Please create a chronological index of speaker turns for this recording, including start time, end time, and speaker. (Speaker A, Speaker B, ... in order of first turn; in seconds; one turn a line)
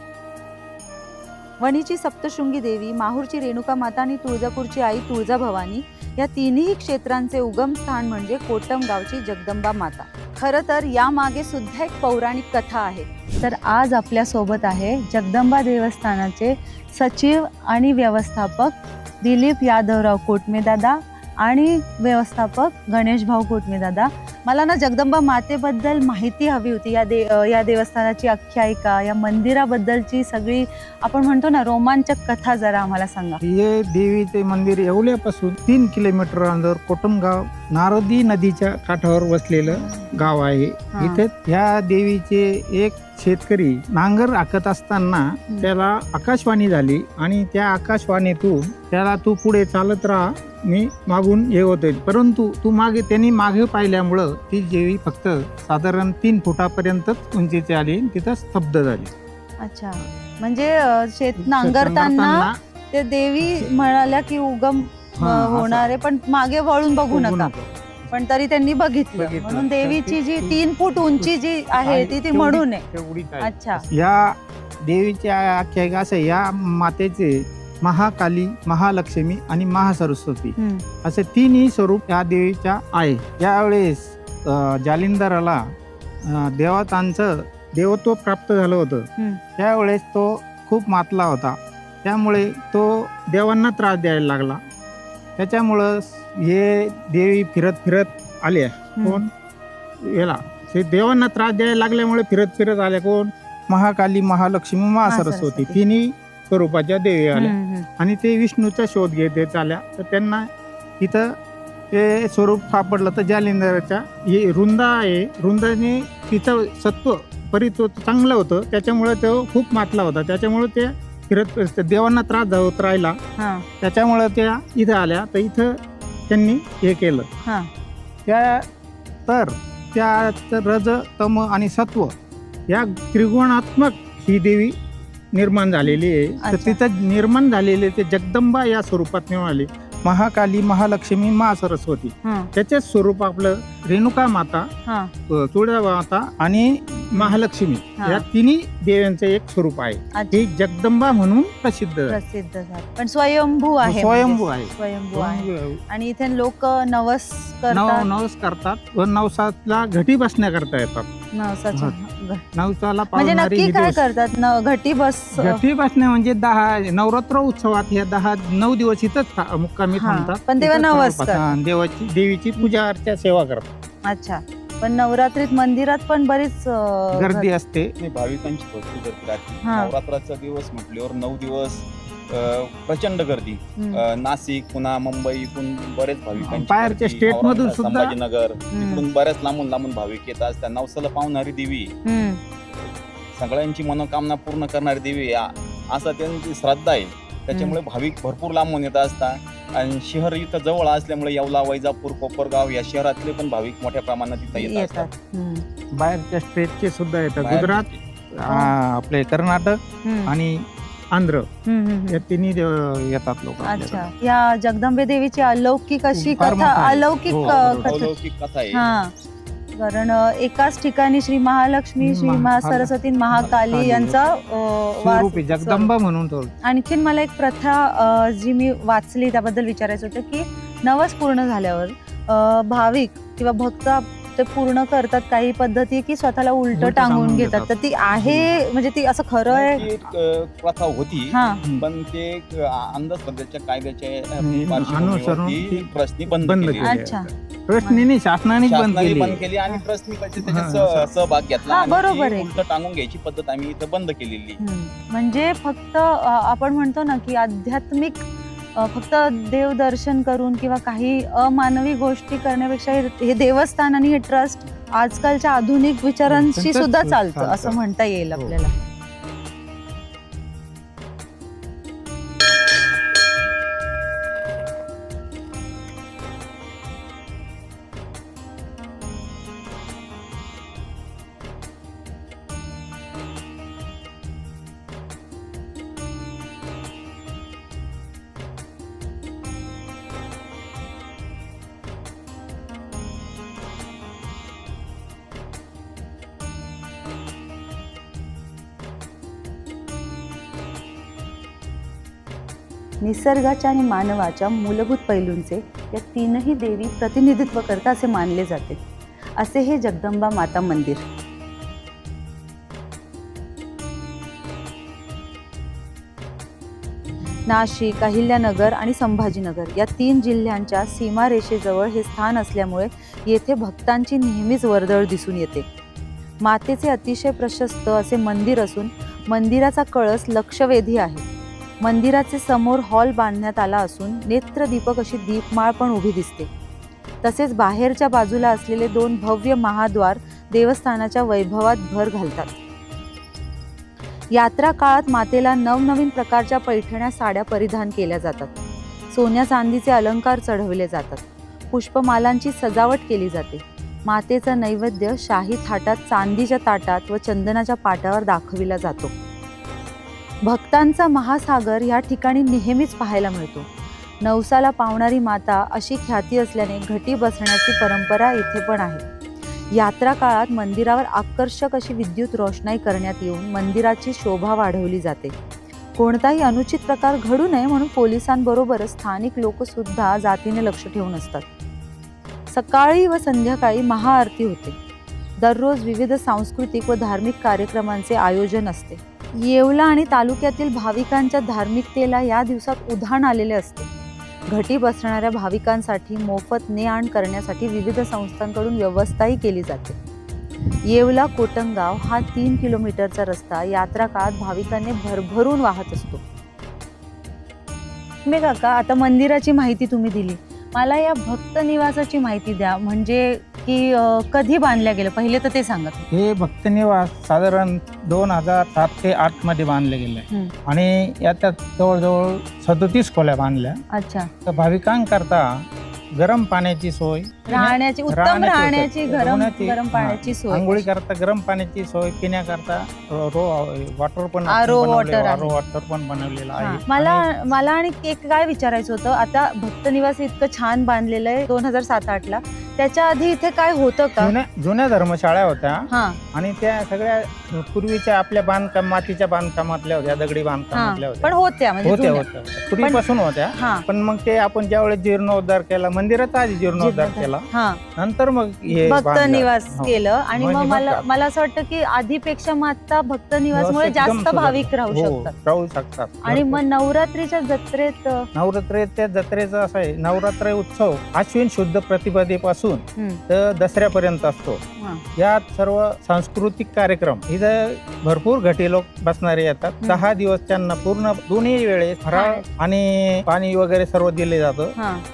Speaker A: 1.6-33.4
Speaker B: 33.4-59.1
Speaker A: 39.7-40.1
Speaker A: 40.9-41.2
Speaker A: 59.6-67.5
Speaker B: 61.4-62.6
Speaker B: 63.4-63.7
Speaker B: 65.1-65.9
Speaker B: 67.1-68.1
Speaker A: 68.1-72.8
Speaker B: 69.2-85.7
Speaker A: 73.4-73.8
Speaker A: 80.6-80.8
Speaker B: 86.2-94.6
Speaker B: 95.4-99.3
Speaker A: 99.0-99.2
Speaker B: 100.0-111.3
Speaker A: 105.0-105.8
Speaker A: 107.3-107.9
Speaker B: 111.9-123.2
Speaker A: 123.4-123.7
Speaker B: 123.8-125.8
Speaker B: 126.3-127.2
Speaker B: 128.2-128.7
Speaker B: 129.3-132.1
Speaker B: 132.7-134.7
Speaker B: 135.3-144.7
Speaker A: 136.4-136.8
Speaker A: 142.2-142.5
Speaker A: 144.8-145.1
Speaker B: 145.3-152.2
Speaker A: 148.0-148.2
Speaker A: 150.2-150.4
Speaker A: 152.1-158.1
Speaker B: 153.8-155.8
Speaker B: 157.7-161.1
Speaker A: 161.3-162.5
Speaker B: 162.5-164.1
Speaker A: 163.1-165.6
Speaker B: 165.3-173.7
Speaker A: 169.9-171.6
Speaker A: 174.1-177.5
Speaker B: 177.1-177.9
Speaker C: 178.0-191.9
Speaker A: 179.6-179.9
Speaker A: 183.8-184.0
Speaker B: 186.4-188.2
Speaker A: 188.7-189.0
Speaker A: 192.1-192.4
Speaker C: 192.7-205.1
Speaker A: 204.5-205.6
Speaker B: 206.0-211.5
Speaker C: 207.4-208.0
Speaker A: 210.0-210.3
Speaker A: 211.7-212.2
Speaker B: 212.1-214.1
Speaker A: 213.6-218.1
Speaker B: 216.1-218.0
Speaker C: 217.4-218.8
Speaker A: 218.7-219.1
Speaker A: 219.7-225.9
Speaker B: 222.0-224.4
Speaker B: 225.0-226.5
Speaker A: 226.7-239.8
Speaker B: 236.7-238.7
Speaker C: 239.5-246.9
Speaker A: 241.3-241.6
Speaker B: 244.4-249.4
Speaker A: 246.8-247.3
Speaker C: 248.6-254.6
Speaker B: 250.4-251.2
Speaker A: 251.7-252.6
Speaker A: 254.6-258.2
Speaker A: 258.8-268.8
Speaker B: 266.3-267.8
Speaker A: 303.0-308.8
Speaker A: 309.4-311.0
Speaker A: 317.5-325.6
Speaker A: 326.4-331.2
Speaker A: 331.8-336.5
Speaker A: 337.2-342.5
Speaker A: 344.3-348.6
Speaker A: 349.1-359.1
Speaker A: 360.4-363.7
Speaker A: 364.2-369.0
Speaker A: 369.7-375.4
Speaker A: 376.0-381.4
Speaker A: 382.5-384.8
Speaker A: 385.4-393.9
Speaker A: 394.5-400.0
Speaker A: 400.9-406.2
Speaker A: 408.2-416.1
Speaker B: 416.1-423.8
Speaker A: 423.9-424.3
Speaker B: 424.4-425.5
Speaker B: 426.1-437.3
Speaker A: 427.5-430.9
Speaker A: 434.5-435.6
Speaker A: 436.6-444.3
Speaker B: 444.2-451.3
Speaker A: 445.9-446.2
Speaker A: 450.7-452.2
Speaker B: 451.8-461.0
Speaker A: 453.5-453.8
Speaker A: 456.8-457.8
Speaker A: 458.7-465.3
Speaker B: 463.5-466.6
Speaker A: 466.2-468.3
Speaker B: 468.3-474.6
Speaker B: 475.1-484.8
Speaker A: 482.1-482.5
Speaker A: 484.8-485.0